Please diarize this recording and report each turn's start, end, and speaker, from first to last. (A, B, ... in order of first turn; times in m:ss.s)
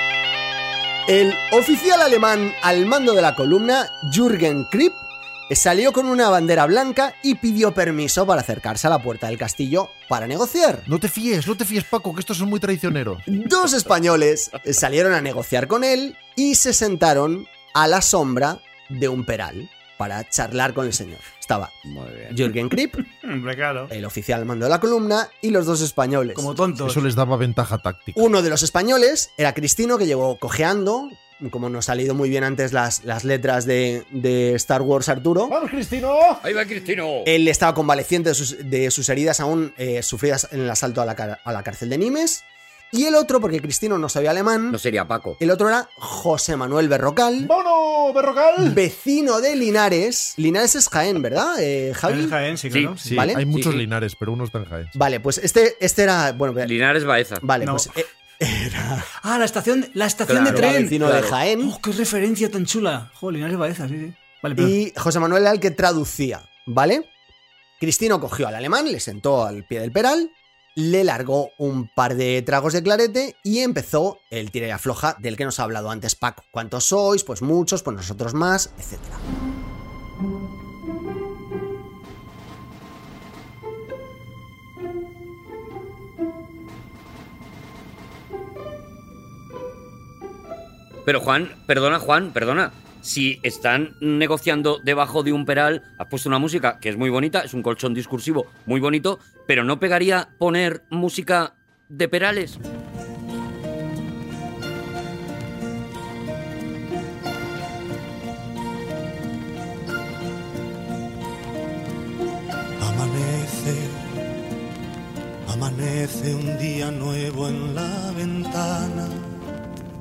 0:01.1-0:10.9 A
0:10.9-0:13.3 B
0:13.3-0:21.7 A
0:21.8-0:22.3 C
0:22.3-0:23.0 A
0:23.1-0:23.9 D
0:23.9-0:26.5 A
0:26.3-0:27.0 D
0:26.8-0:28.2 B
0:28.1-0:35.6 A
0:35.5-0:36.4 B
0:36.4-0:37.3 C
0:37.2-0:44.8 A
0:44.7-0:45.4 C
0:45.4-0:47.5 A
0:47.4-0:48.8 B
0:48.6-0:52.4 A
0:52.1-0:53.2 D
0:52.7-0:53.0 C
0:53.1-0:54.9 B
0:53.1-0:53.4 A
0:53.5-0:53.8 C
0:55.0-0:56.7 A
0:56.6-0:57.4 C
0:57.4-0:59.1 A
0:57.6-0:57.9 D
0:59.2-1:01.0 D
1:00.3-1:01.4 C
1:00.4-1:01.8 A
1:01.6-1:04.7 D
1:04.6-1:07.1 A
1:07.8-1:19.2 A
1:31.0-1:42.6 C
1:52.8-1:54.1 E
1:55.5-1:59.3 E